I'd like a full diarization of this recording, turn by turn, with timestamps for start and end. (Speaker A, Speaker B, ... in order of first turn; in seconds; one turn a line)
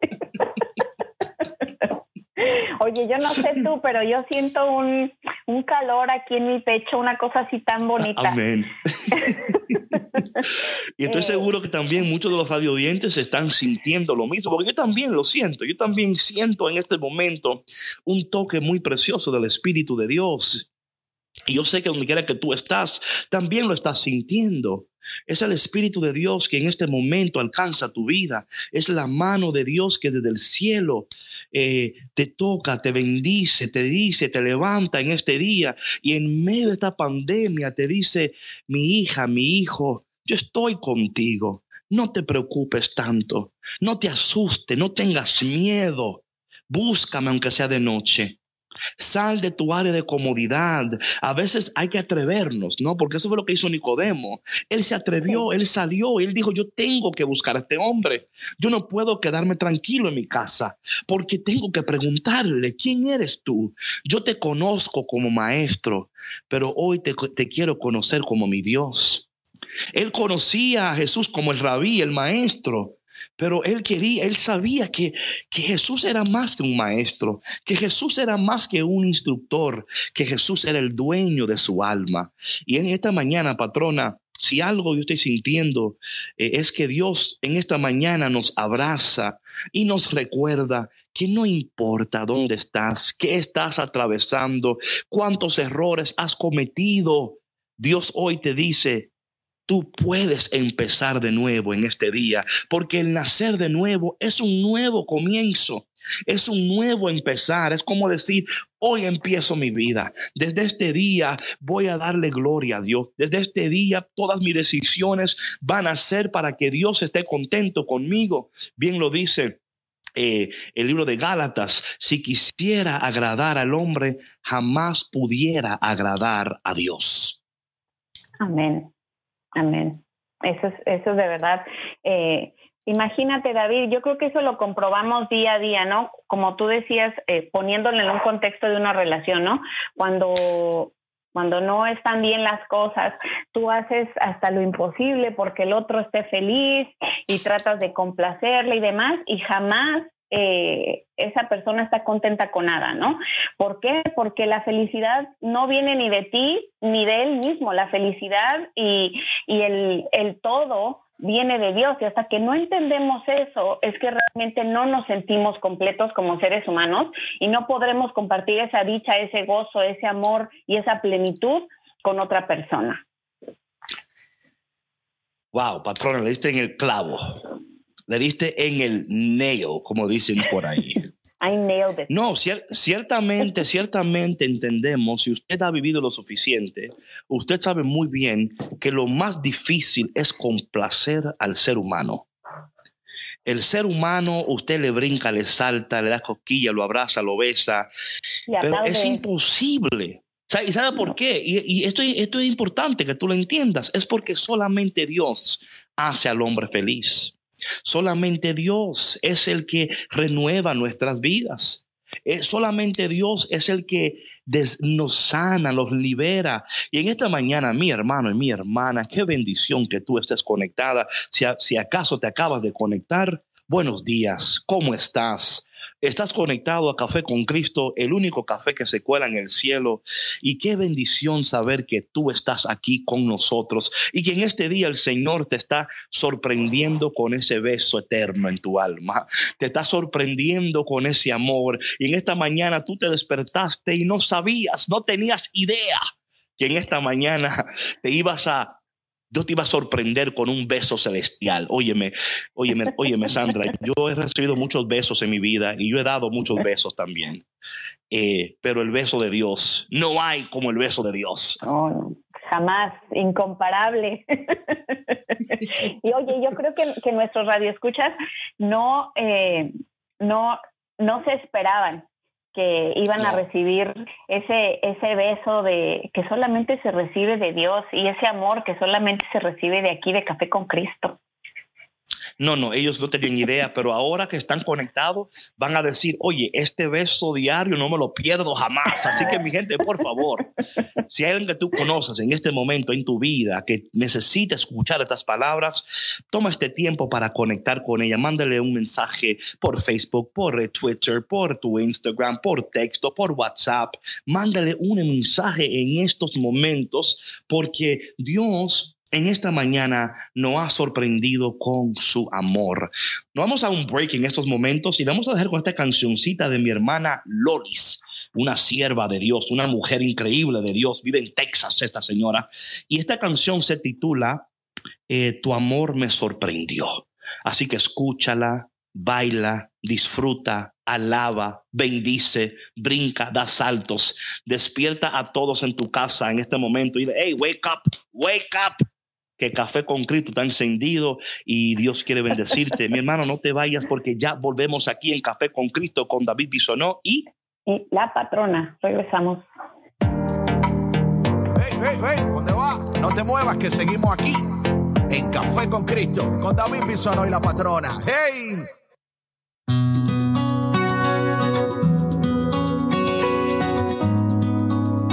Speaker A: 2.4-8.4
Speaker B: 8.1-9.8
Speaker B: 11.0-20.7
Speaker A: 11.1-11.5
Speaker B: 21.5-48.4
Speaker B: 49.0-69.3
Speaker B: 69.9-99.1
Speaker B: 99.7-119.6
Speaker B: 120.2-127.4
Speaker A: 128.4-128.9
Speaker A: 129.6-173.0
Speaker B: 175.5-177.5
Speaker B: 178.1-181.1
Speaker A: 181.4-182.1
Speaker B: 182.1-192.3
Speaker B: 193.4-197.9
Speaker A: 198.5-199.2
Speaker B: 198.6-246.0
Speaker B: 246.6-248.8
Speaker B: 249.3-257.4
Speaker B: 258.1-261.6
Speaker A: 261.6-281.2
Speaker B: 282.4-290.5
Speaker B: 291.1-324.5
Speaker B: 325.1-338.8
Speaker B: 339.4-347.3
Speaker A: 347.7-349.4
Speaker C: 351.6-354.5
Speaker C: 355.1-358.7